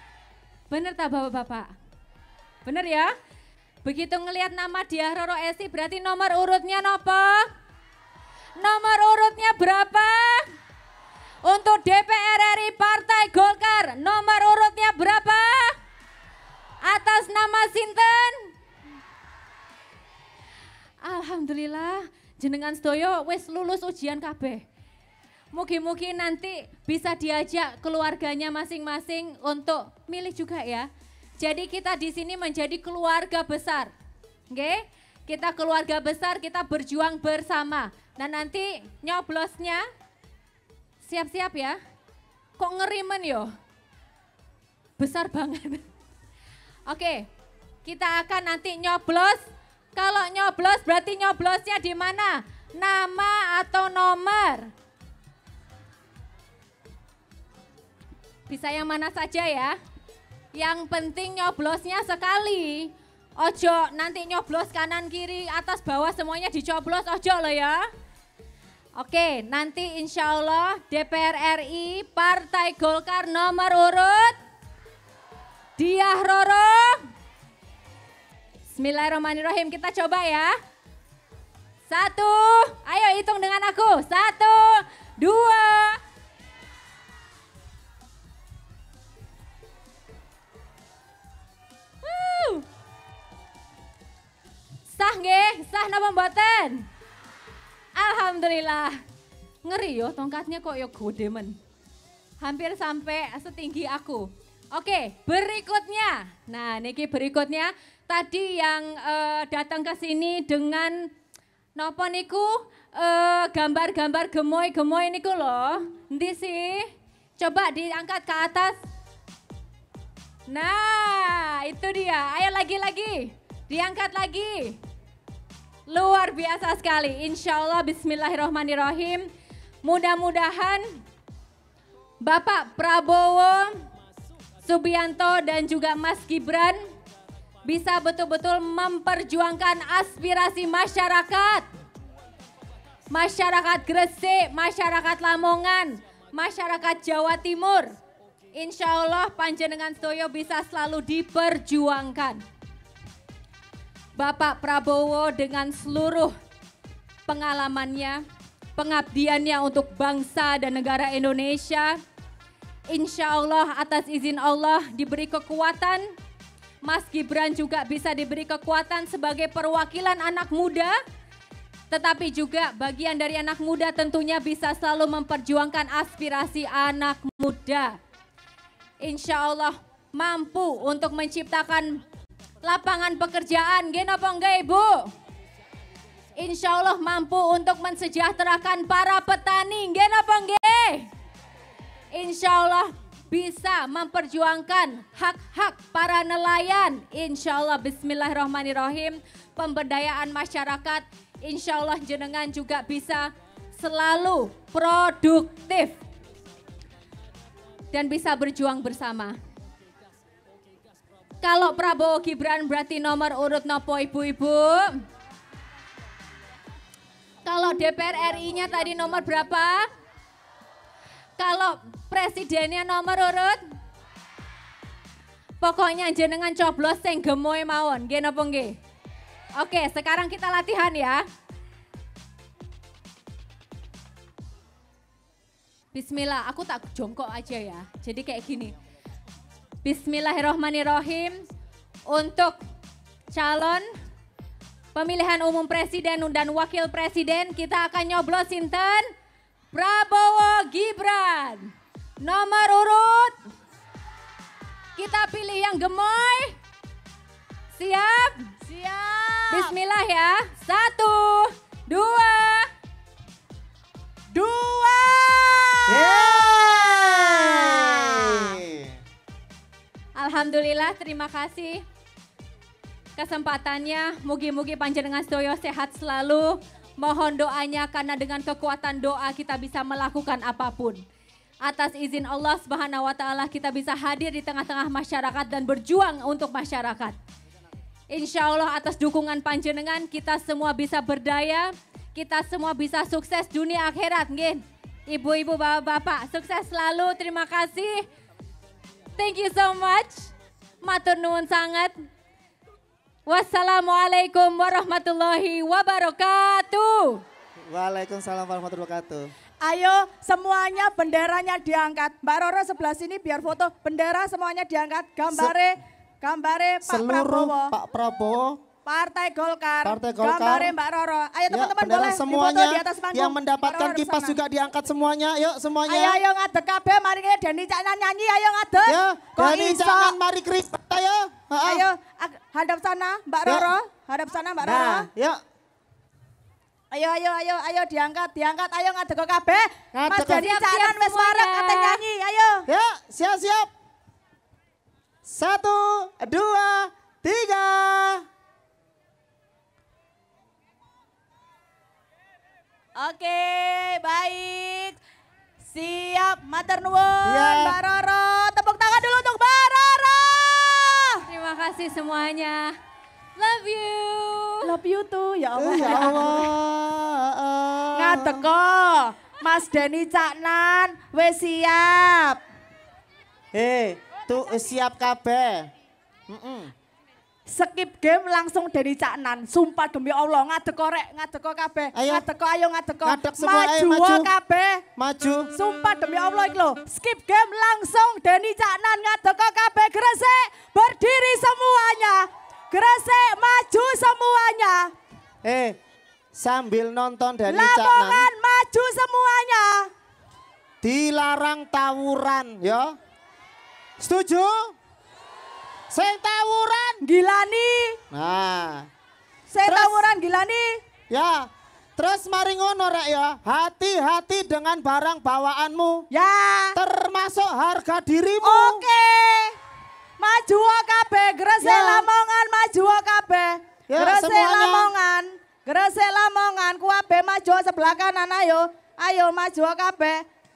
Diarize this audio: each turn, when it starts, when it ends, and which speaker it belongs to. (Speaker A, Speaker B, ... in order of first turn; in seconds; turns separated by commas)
Speaker A: 0.7-1.7, Speaker A: 2.6-3.1, Speaker A: 3.8-7.5, Speaker A: 8.6-10.5, Speaker A: 11.4-15.7, Speaker A: 16.8-18.5, Speaker A: 21.0-24.6, Speaker A: 25.5-30.9, Speaker A: 31.4-33.9, Speaker A: 34.5-39.8, Speaker A: 41.0-41.8, Speaker A: 42.6-43.5, Speaker A: 45.0-45.9, Speaker A: 46.9-47.3, Speaker A: 47.8-49.4, Speaker A: 50.0-54.7, Speaker A: 58.5-59.8, Speaker A: 60.5-67.8, Speaker A: 69.0-74.4, Speaker A: 75.8-77.0, Speaker A: 78.7-80.5, Speaker A: 81.9-86.0, Speaker A: 92.0-92.6, Speaker A: 94.9-96.9, Speaker A: 98.0-99.0, Speaker A: 99.6-101.6, Speaker A: 102.4-111.1, Speaker A: 111.8-118.8, Speaker A: 120.5-124.8, Speaker A: 125.9-129.3, Speaker A: 129.8-130.8, Speaker A: 132.2-133.7, Speaker A: 134.6-136.8, Speaker A: 137.6-141.6, Speaker A: 143.1-147.9, Speaker A: 148.5-152.4, Speaker A: 154.2-156.3, Speaker A: 157.3-158.2, Speaker A: 158.8-162.0, Speaker A: 162.9-166.0, Speaker A: 166.8-170.9, Speaker A: 171.9-178.0, Speaker A: 179.0-182.0, Speaker A: 182.6-185.1, Speaker A: 186.4-191.1, Speaker A: 192.1-206.0, Speaker A: 207.9-209.3, Speaker A: 211.4-215.0, Speaker A: 217.4-219.9, Speaker A: 221.4-223.6, Speaker A: 225.6-228.8, Speaker A: 229.6-231.2, Speaker A: 235.9-238.7, Speaker A: 239.8-241.4, Speaker A: 242.1-242.6, Speaker A: 243.3-243.8, Speaker A: 244.9-249.1, Speaker A: 249.7-253.3, Speaker A: 255.0-256.5, Speaker A: 257.8-258.5, Speaker B: 258.6-259.7, Speaker A: 259.5-262.7, Speaker B: 264.3-268.5, Speaker C: 265.9-269.0, Speaker A: 270.1-271.8, Speaker A: 273.2-281.0, Speaker A: 281.6-287.2, Speaker A: 288.1-298.1, Speaker A: 299.2-300.3, Speaker A: 300.8-302.0, Speaker A: 303.3-307.2, Speaker C: 307.6-309.3, Speaker B: 309.6-317.7, Speaker C: 316.8-318.6, Speaker B: 318.9-324.4, Speaker C: 319.8-320.7, Speaker C: 321.5-326.2, Speaker B: 325.9-330.1, Speaker C: 328.9-331.8, Speaker B: 331.6-335.1, Speaker C: 334.6-335.4, Speaker B: 336.9-342.6, Speaker C: 339.9-340.5, Speaker A: 340.3-342.0, Speaker C: 342.7-343.7, Speaker C: 345.2-348.2, Speaker B: 353.0-355.0, Speaker B: 355.7-361.2, Speaker C: 357.2-357.8, Speaker A: 361.3-362.7, Speaker A: 363.4-364.7, Speaker B: 364.6-366.5, Speaker C: 365.6-368.5, Speaker B: 367.9-372.4, Speaker C: 373.5-375.7, Speaker C: 376.3-376.7, Speaker B: 377.5-384.8, Speaker C: 381.9-382.2, Speaker C: 383.0-384.3, Speaker C: 384.9-385.5, Speaker B: 385.5-394.9, Speaker C: 395.4-395.8, Speaker C: 396.3-398.2, Speaker B: 397.5-399.9, Speaker C: 400.8-402.9, Speaker C: 404.0-404.7, Speaker C: 405.9-407.0, Speaker B: 407.0-408.0, Speaker C: 408.1-408.9, Speaker B: 409.5-410.7, Speaker C: 409.6-410.0, Speaker C: 411.1-416.1, Speaker B: 416.1-416.8, Speaker C: 416.7-418.8, Speaker B: 418.4-419.6, Speaker B: 420.2-430.2, Speaker C: 421.6-422.1, Speaker C: 423.9-424.9